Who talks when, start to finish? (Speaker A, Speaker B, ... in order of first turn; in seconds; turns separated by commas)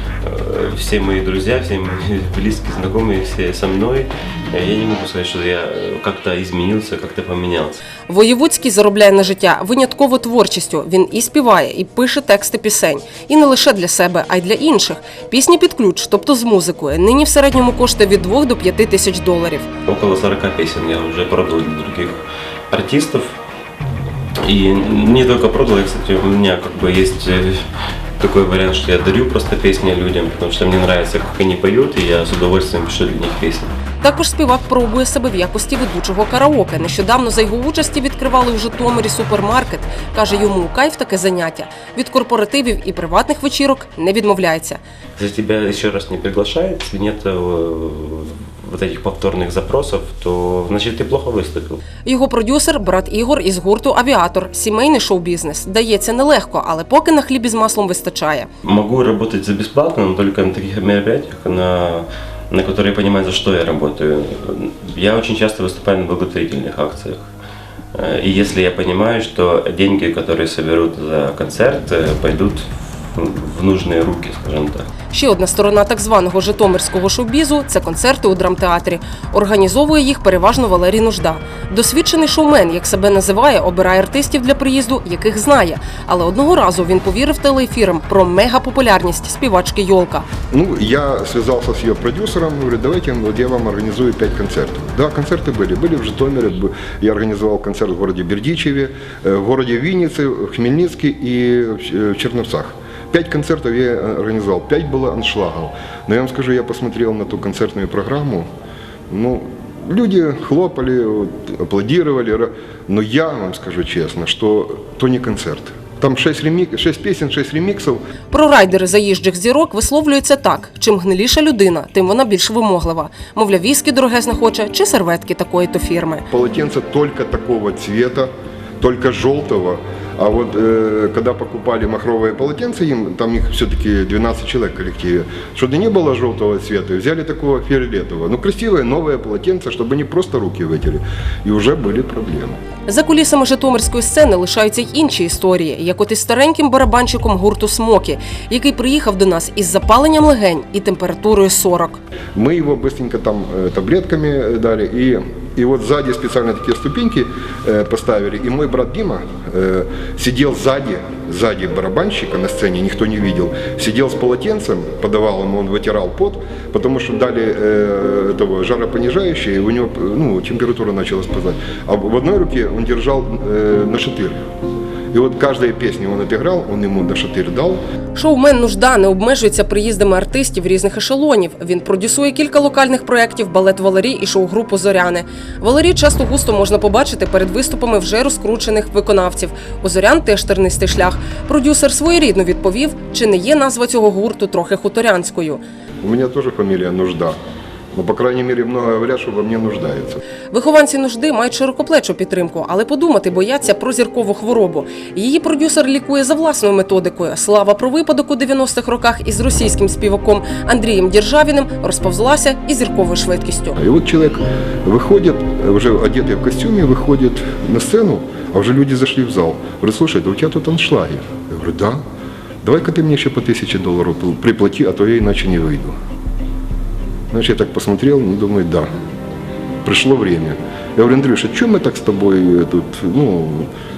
Speaker A: 0.2-7.8, Speaker B: 8.1-19.7, Speaker A: 19.9-23.4, Speaker A: 24.4-27.6, Speaker A: 28.2-33.7, Speaker B: 34.0-44.8, Speaker A: 45.2-51.8, Speaker B: 52.0-58.5, Speaker A: 58.6-67.3, Speaker A: 68.0-74.9, Speaker B: 75.1-90.2, Speaker C: 90.5-108.5, Speaker C: 109.1-118.0, Speaker B: 118.3-126.2, Speaker C: 126.3-142.6, Speaker B: 142.9-152.0, Speaker C: 152.3-174.4, Speaker C: 175.1-177.8, Speaker B: 178.1-195.6, Speaker C: 196.0-197.4, Speaker C: 197.9-200.2, Speaker B: 200.5-213.8, Speaker C: 213.8-222.0, Speaker C: 222.6-225.9, Speaker C: 227.3-228.9, Speaker C: 229.8-233.7